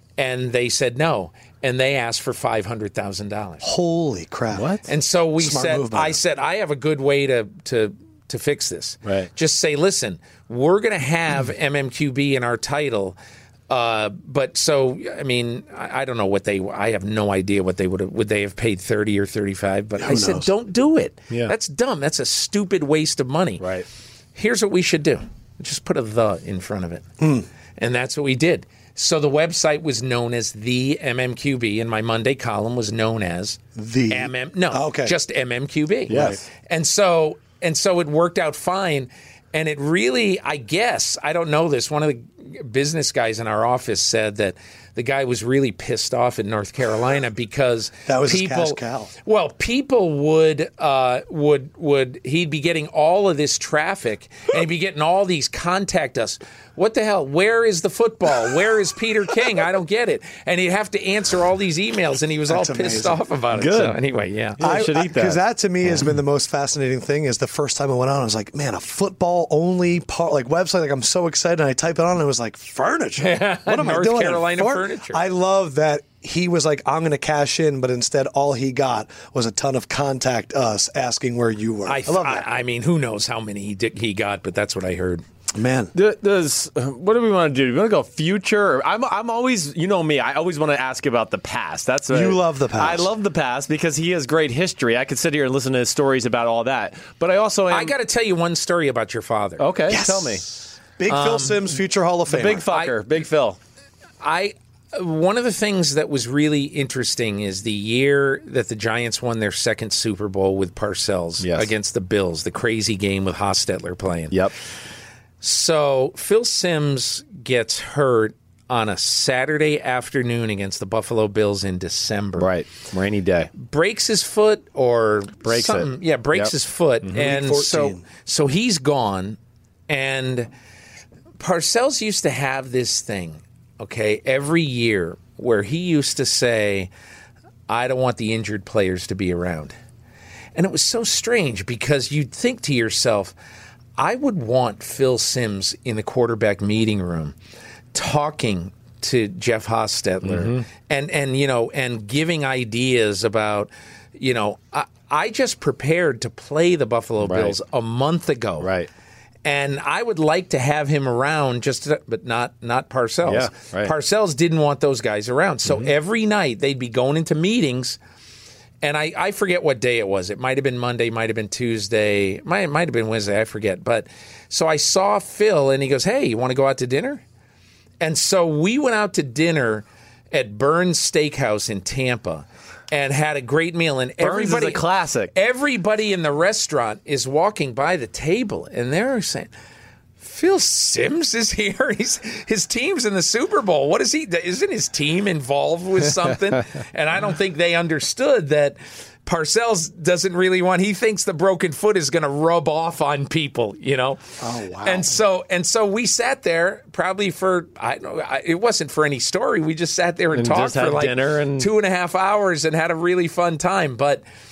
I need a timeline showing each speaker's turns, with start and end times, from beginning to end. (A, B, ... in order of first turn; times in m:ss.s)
0:00.2-0:03.6 A
0:03.6-0:04.8 B
0:04.5-0:04.8 C
0:04.9-0:13.2 A
0:05.4-0:06.2 B
0:13.7-0:23.7 A
0:20.0-0:20.5 B
0:23.6-0:23.9 C
0:24.4-0:27.1 A
0:27.2-0:27.4 B
0:27.8-1:04.6 A
0:33.8-0:35.2 B
0:36.1-0:36.4 B
0:36.1-0:36.4 C
0:48.1-0:49.1 B
1:02.5-1:03.2 B
1:03.5-1:04.0 C
1:04.6-1:05.4 C
1:04.6-1:22.5 B
1:13.2-1:15.2 A
1:21.9-1:25.2 A
1:25.6-1:25.9 B
1:26.0-1:37.9 C
1:32.1-1:33.1 B
1:37.7-1:39.6 A
1:39.6-1:40.4 C
1:39.9-1:42.7 B
1:41.1-1:41.6 A
1:42.3-1:43.6 C
1:42.7-1:43.0 A
1:44.2-1:54.4 A
1:51.4-1:51.7 C
1:55.4-2:02.5 A
2:02.4-2:03.5 C
2:03.6-2:09.4 A
2:05.4-2:06.5 C
2:07.1-2:08.0 B
2:09.9-2:10.5 A
2:11.4-2:16.9 A
2:17.7-2:19.8 A
2:20.6-2:23.3 A
2:24.0-2:27.4 A
2:27.9-2:38.7 A
2:30.2-2:30.6 C
2:37.2-2:37.6 C
2:38.6-2:38.9 C
2:39.4-2:48.0 A
2:43.3-2:43.9 C
2:48.8-2:57.2 A
2:58.0-3:09.5 A
3:04.2-3:05.3 C
3:10.2-3:34.2 A
3:24.4-3:25.1 B
3:30.4-3:31.7 C